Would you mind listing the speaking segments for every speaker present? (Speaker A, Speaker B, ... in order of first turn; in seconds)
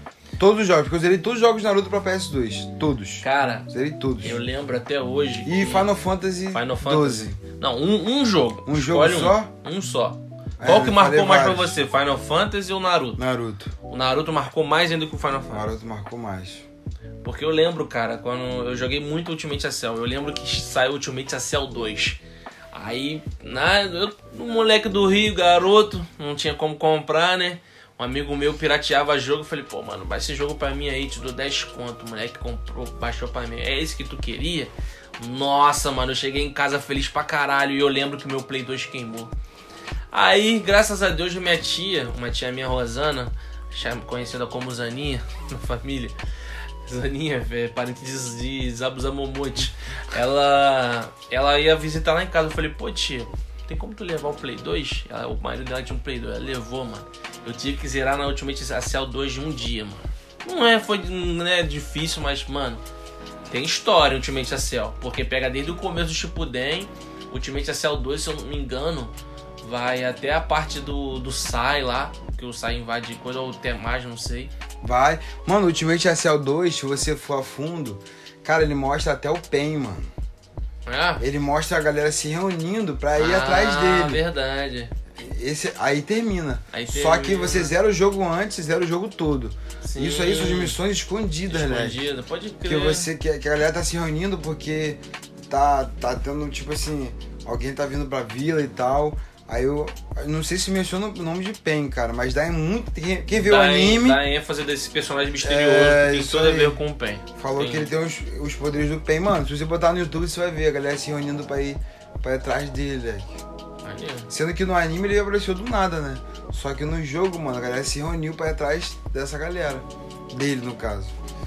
Speaker A: 0.4-4.4, 5.4-7.4, 8.6-9.5, 10.6-11.8, 13.2-13.7, 15.5-16.6, 74.8-80.1, 81.2-84.2, 85.2-92.0, 92.6-104.2, 105.4-106.8, 107.3-113.4, 114.3-121.1
Speaker B: 3.2-5.9, 6.5-13.2, 13.9-15.7, 17.2-22.2, 22.7-39.3, 40.1-46.1, 46.9-62.8, 63.5-74.5, 80.8-81.2, 83.2-84.9, 86.7-87.7, 89.8-90.8, 91.5-93.1, 103.3-107.9, 113.8-114.3